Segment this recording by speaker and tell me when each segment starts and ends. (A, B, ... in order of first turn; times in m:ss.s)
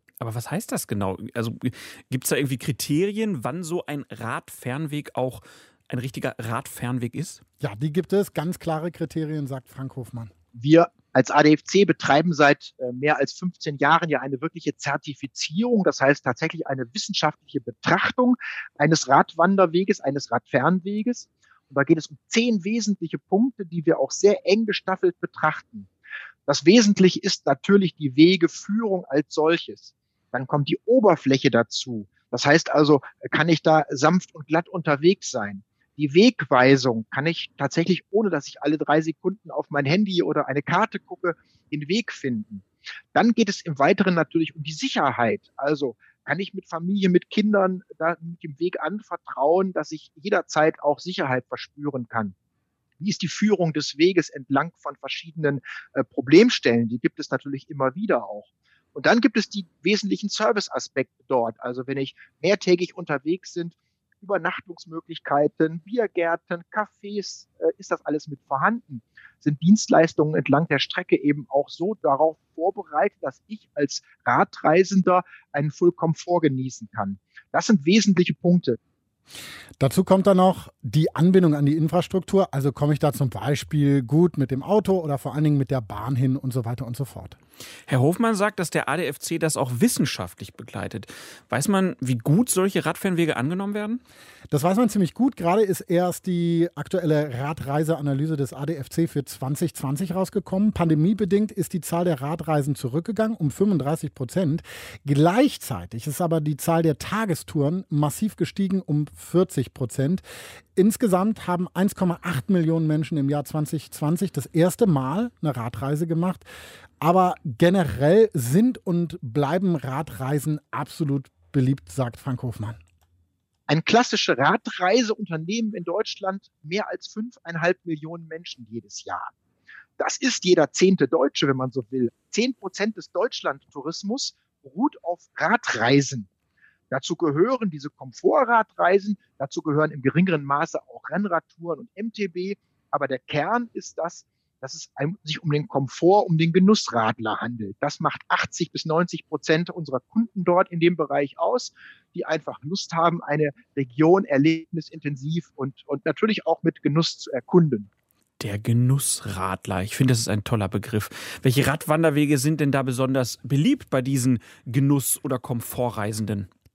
0:00.2-0:07.4 A
0:07.6-0:10.3 B
0:10.5-0:25.9 C
0:26.5-0:52.3 C
0:53.0-1:18.8 C
1:19.8-1:27.4 B
1:27.9-1:34.0 A
1:34.5-1:50.2 B
1:50.8-1:56.5 B
1:57.0-2:02.8 B
2:03.7-2:09.3 C
2:10.0-2:16.3 C
2:16.9-2:37.9 C
2:38.4-2:46.5 A